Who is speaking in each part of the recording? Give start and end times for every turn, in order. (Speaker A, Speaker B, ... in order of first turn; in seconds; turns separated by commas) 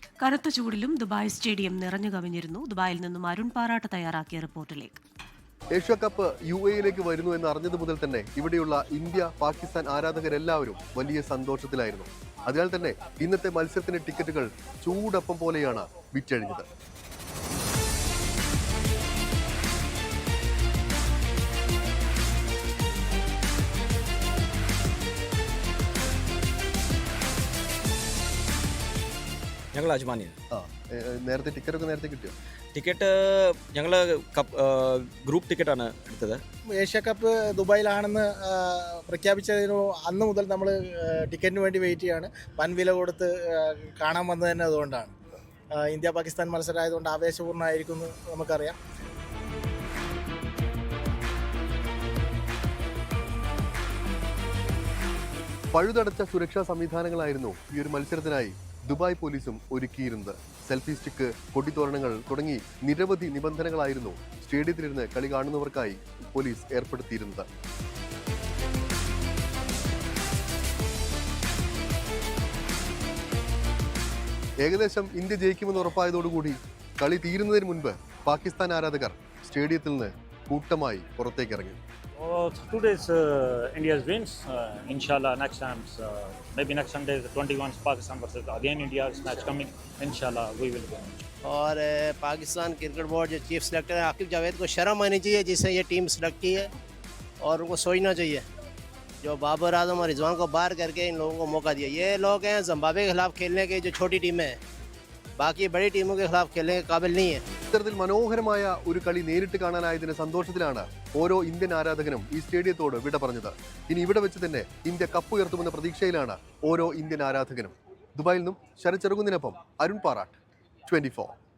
Speaker A: 0.2-5.0, Speaker B: 5.7-16.7, Speaker C: 29.7-30.4, Speaker B: 30.5-32.3, Speaker C: 32.8-36.4, Speaker D: 36.7-45.2, Speaker D: 45.7-48.8, Speaker B: 55.7-67.5, Speaker B: 74.6-81.8, Speaker E: 82.2-91.2, Speaker F: 91.6-96.7, Speaker F: 97.5-98.4, Speaker F: 99.3-104.5, Speaker F: 105.4-107.4, Speaker B: 107.7-120.3, Speaker B: 120.9-121.3